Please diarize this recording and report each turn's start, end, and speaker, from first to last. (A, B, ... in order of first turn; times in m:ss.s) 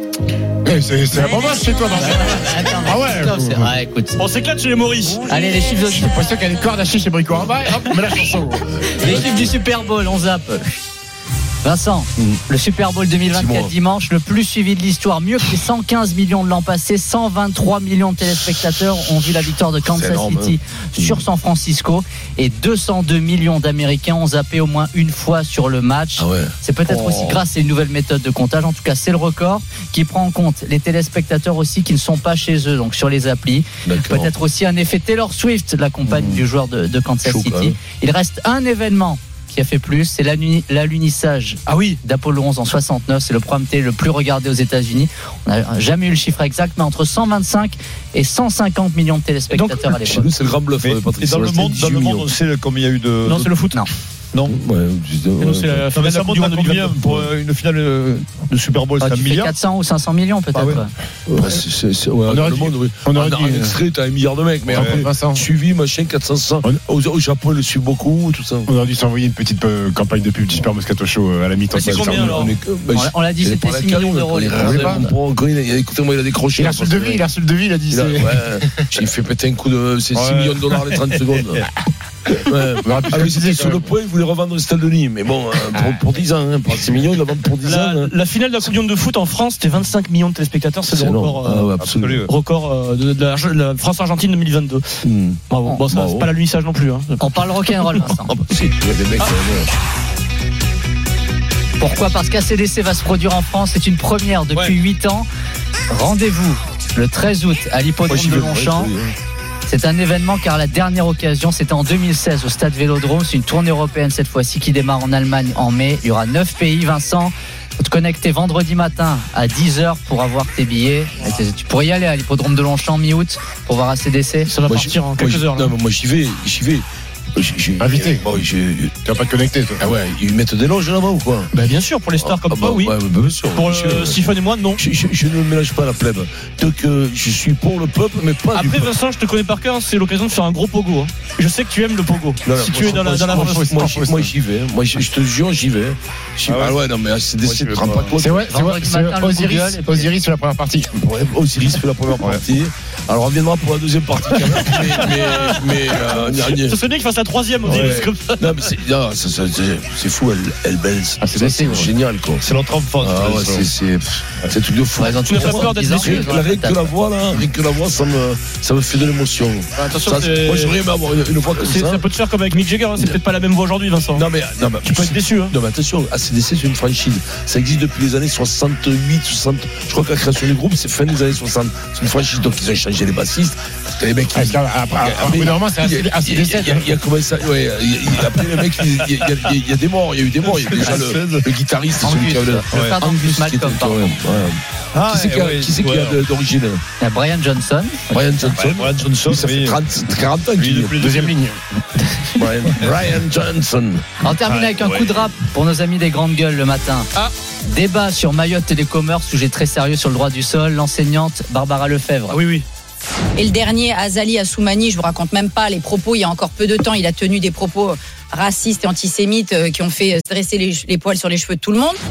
0:00.6-0:03.7 A
0:01.9-0:04.2 B
0:04.2-0:05.3 C
0:05.3-0:06.1 B
0:05.9-0:08.8 A
0:08.9-0:10.8 B
0:09.0-0:09.5 D
0:11.6-0:50.3 B
0:13.3-0:13.7 D
0:19.9-0:21.2 D
0:26.2-0:26.5 D
0:33.8-0:34.3 D
0:37.2-0:37.7 D
0:41.6-0:42.0 C
0:49.7-0:51.2 D
0:50.8-0:53.5 E
0:50.9-0:51.9 F
0:53.2-0:53.8 C
0:54.6-0:55.9 D
0:55.4-0:57.2 C
0:56.0-0:59.5 E
0:59.0-1:00.9 B
1:00.5-1:00.8 E
1:01.3-1:08.7 D
1:02.3-1:03.8 A
1:02.4-1:02.7 F
1:04.7-1:05.4 A
1:04.7-1:05.1 E
1:04.8-1:05.4 F
1:08.7-1:12.4 A
1:11.7-1:12.5 C
1:11.8-1:14.0 D
1:12.3-1:13.0 F
1:12.9-1:15.1 B
1:13.5-1:15.3 F
1:14.5-1:15.0 A
1:14.6-1:17.2 D
1:16.6-1:19.0 A
1:17.9-1:19.3 F
1:19.2-1:20.2 D
1:20.1-1:21.6 E
1:20.2-1:21.6 F
1:22.5-1:28.1 D
1:22.8-1:23.9 F
1:22.8-1:23.9 A
1:25.6-1:26.4 F
1:25.7-1:26.0 A
1:27.6-1:38.0 C
1:30.9-1:31.4 D
1:31.4-1:32.2 F
1:31.8-1:32.3 E
1:36.0-1:36.3 D
1:37.2-1:38.3 B
1:38.3-1:39.7 D
1:41.8-1:45.3 B
1:45.9-1:48.9 B
1:48.1-1:49.1 D
1:49.6-2:04.5 B
2:04.4-2:05.7 C
2:04.7-2:08.9 D
2:07.8-2:08.2 A
2:09.0-2:09.9 A
2:09.9-2:11.5 D
2:11.5-2:12.9 C
2:12.2-2:14.2 D
2:13.5-2:14.8 C
2:14.8-2:18.9 D
2:18.5-2:23.6 C
2:22.4-2:27.5 D
2:23.3-2:24.3 A
2:24.0-2:24.5 F
2:26.5-2:26.8 E
2:26.5-2:27.0 F
2:27.4-2:28.1 E
2:27.5-2:28.4 F
2:28.0-2:28.3 D
2:28.2-2:30.9 A
2:28.5-2:30.1 B
2:31.1-2:36.8 D
2:32.4-2:32.7 F
2:34.4-2:38.7 C
2:37.6-2:41.2 D
2:41.2-2:41.9 A
2:41.3-2:42.2 F
2:42.0-2:42.4 D
2:42.4-2:43.6 E
2:43.0-2:44.8 F
2:43.4-2:43.7 A
2:43.8-2:52.0 D
2:45.2-2:46.3 C
2:45.3-2:46.9 B
2:46.2-2:46.9 F
2:49.8-2:50.8 C
2:51.6-2:54.3 C
2:54.2-3:12.6 D
2:54.8-2:55.5 C
3:04.3-3:07.0 A
3:08.6-3:09.5 F
3:10.5-3:11.5 E
3:10.8-3:11.2 F
3:12.0-3:14.2 B
3:12.7-3:13.0 E
3:13.2-3:14.6 D
3:14.9-3:16.3 E
3:15.1-3:16.3 F
3:16.3-3:16.8 D
3:17.0-3:18.0 B
3:18.1-3:18.5 D
3:18.4-3:18.7 F
3:18.5-3:19.8 E
3:19.3-3:20.6 D
3:19.7-3:20.8 F
3:20.6-3:21.4 E
3:21.0-3:22.0 A
3:22.4-3:24.0 D
3:24.2-3:27.1 B
3:24.4-3:25.3 E
3:27.6-3:32.4 B
3:32.3-3:32.6 C
3:33.4-3:42.0 F